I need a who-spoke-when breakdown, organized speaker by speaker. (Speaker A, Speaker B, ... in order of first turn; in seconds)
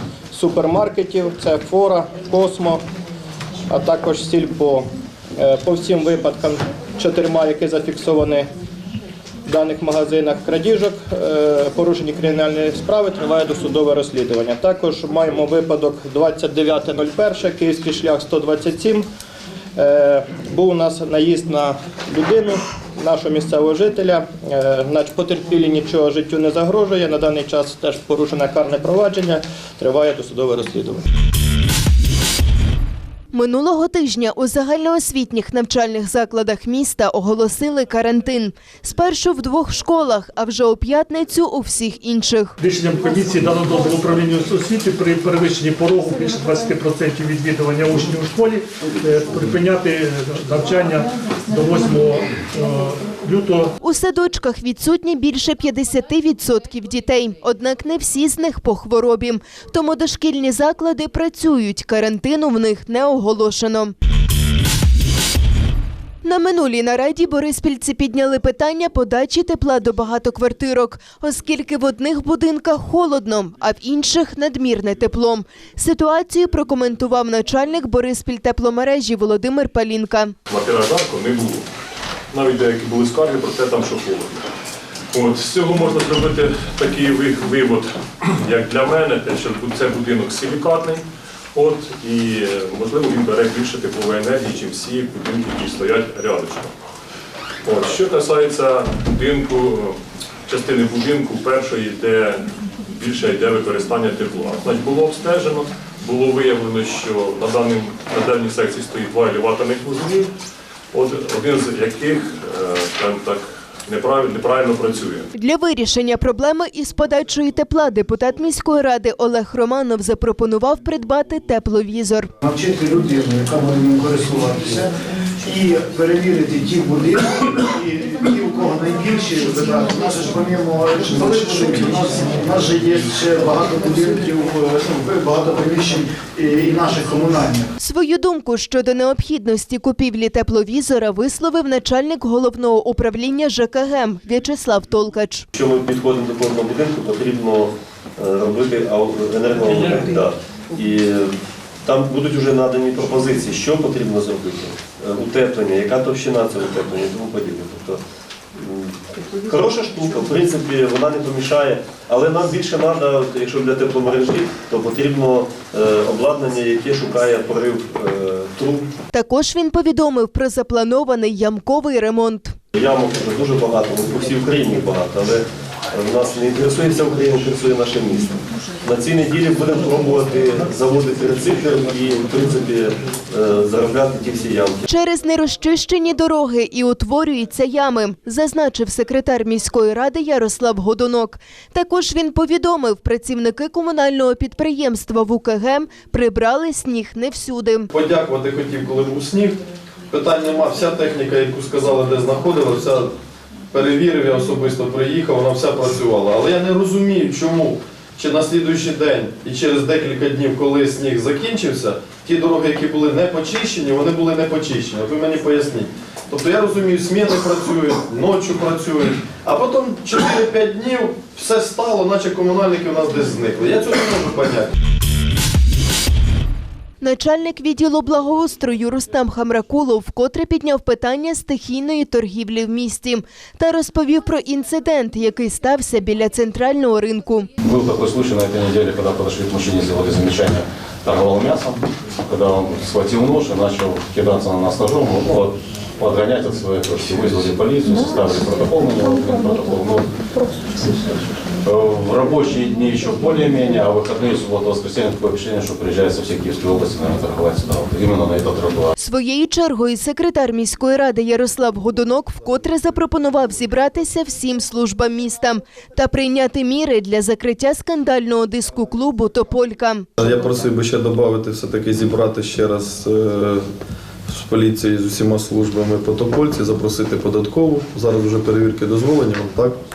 Speaker A: 0.3-2.8, 3.7-8.5, 9.5-19.1, 19.8-31.0
Speaker B: 33.3-42.6, 53.8-63.9, 66.2-80.3, 115.3-122.3, 137.8-145.4, 169.1-172.5, 184.9-197.9, 227.0-237.5, 259.0-270.1
Speaker C: 42.6-53.7
Speaker D: 80.5-81.7, 82.3-84.4, 85.1-91.0, 91.5-96.7, 97.6-100.0, 100.5-110.3, 110.9-115.3
Speaker E: 122.4-137.7
Speaker F: 145.5-158.0, 158.5-168.9, 172.7-184.8
Speaker G: 197.9-203.1, 203.7-224.7, 270.2-273.6, 274.3-279.8
Speaker H: 237.6-250.2, 251.6-258.9